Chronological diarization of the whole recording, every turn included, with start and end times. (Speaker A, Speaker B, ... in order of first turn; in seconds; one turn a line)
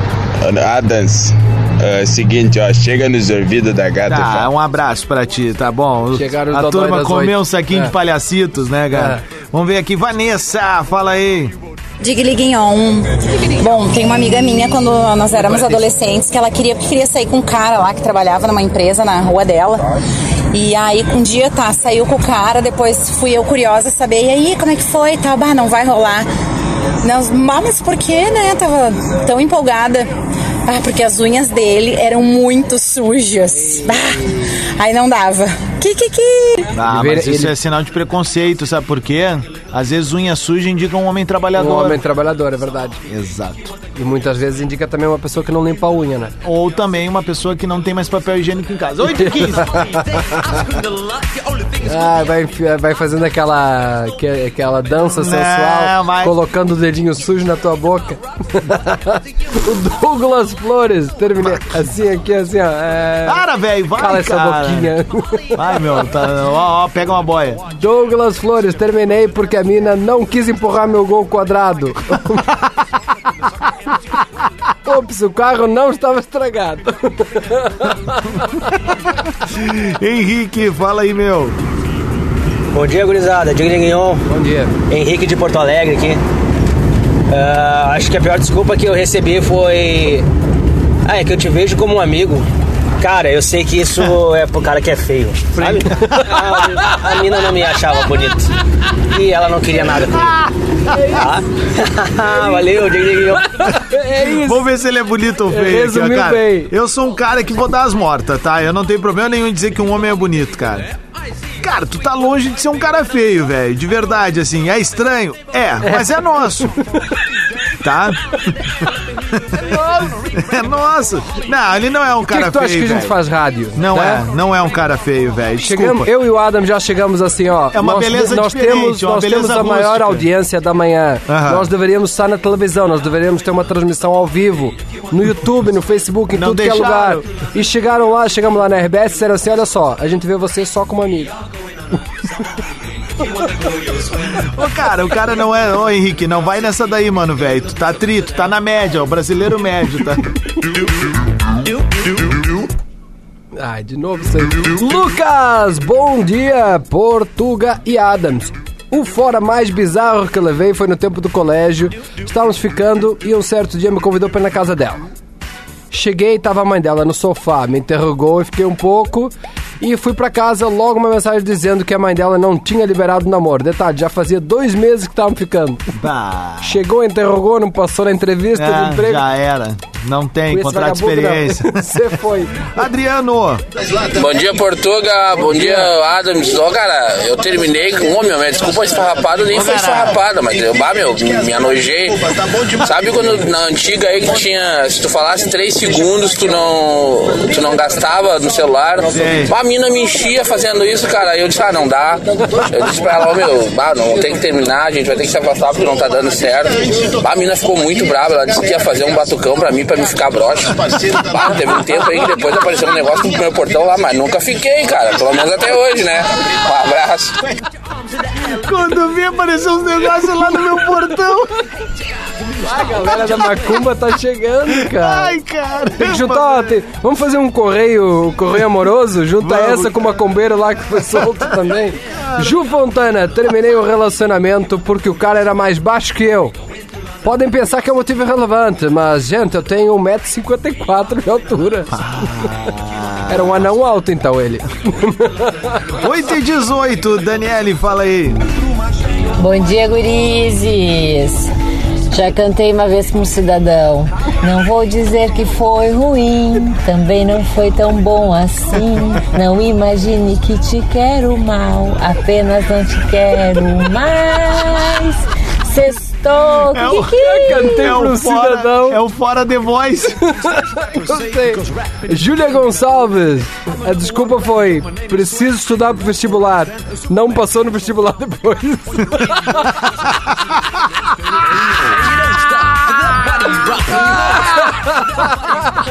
Speaker A: 0.4-4.5
Speaker B: 4.1-11.5
Speaker C: 6.1-7.9
Speaker C: 8.9-9.2
Speaker D: 12.0-19.9
Speaker C: 15.4-15.8
Speaker D: 20.5-26.3
Speaker D: 27.0-30.1
Speaker D: 30.7-36.7
Speaker B: 36.7-42.0
Speaker C: 36.9-37.5
Speaker C: 41.5-43.0
Speaker B: 43.1-43.7
Speaker C: 43.9-46.3
Speaker B: 46.4-50.1
Speaker C: 49.2-49.9
Speaker C: 51.8-63.4
Speaker B: 55.0-56.3
Speaker B: 63.2-64.9
Speaker C: 64.0-65.6
Speaker B: 65.5-67.6
Speaker C: 67.8-72.5
Speaker C: 74.8-78.5
Speaker B: 79.4-81.5
Speaker E: 82.7-84.2
Speaker C: 84.3-84.7
Speaker E: 84.9-86.2
Speaker E: 87.3-90.2
Speaker E: 91.0-92.5
Speaker E: 93.0-98.5
Speaker C: 95.6-96.2
Speaker E: 99.1-100.4
Speaker E: 101.1-103.5
Speaker C: 103.5-104.7
Speaker B: 104.3-110.9
Speaker C: 105.5-106.7
Speaker B: 111.6-116.8
Speaker B: 117.8-118.8
Speaker B: 119.5-123.1
Speaker C: 122.3-124.2
Speaker B: 123.7-126.1
Speaker C: 125.6-141.3
Speaker B: 127.7-130.3
Speaker B: 131.3-131.7
Speaker B: 136.3-137.2
Speaker B: 144.4-150.2
Speaker C: 153.6-165.1
Speaker C: 165.9-175.9
Speaker B: 176.0-176.7
Speaker C: 176.6-179.2
Speaker B: 178.6-182.0
Speaker C: 180.5-182.7
Speaker B: 182.7-183.6
Speaker F: 184.0-217.4
Speaker B: 189.5-190.2
Speaker B: 199.1-199.5
Speaker B: 218.4-221.6
Speaker C: 222.6-225.3
Speaker B: 223.1-223.6
Speaker B: 224.8-226.7
Speaker C: 226.0-236.5
Speaker B: 229.4-230.1
Speaker C: 237.2-242.0
Speaker B: 241.9-243.7
Speaker C: 243.3-245.7
Speaker B: 246.0-248.4
Speaker G: 249.4-251.5
Speaker G: 252.1-267.8
Speaker B: 266.7-270.2
Speaker C: 267.1-269.0
Speaker C: 270.3-279.7
Speaker C: 283.9-285.3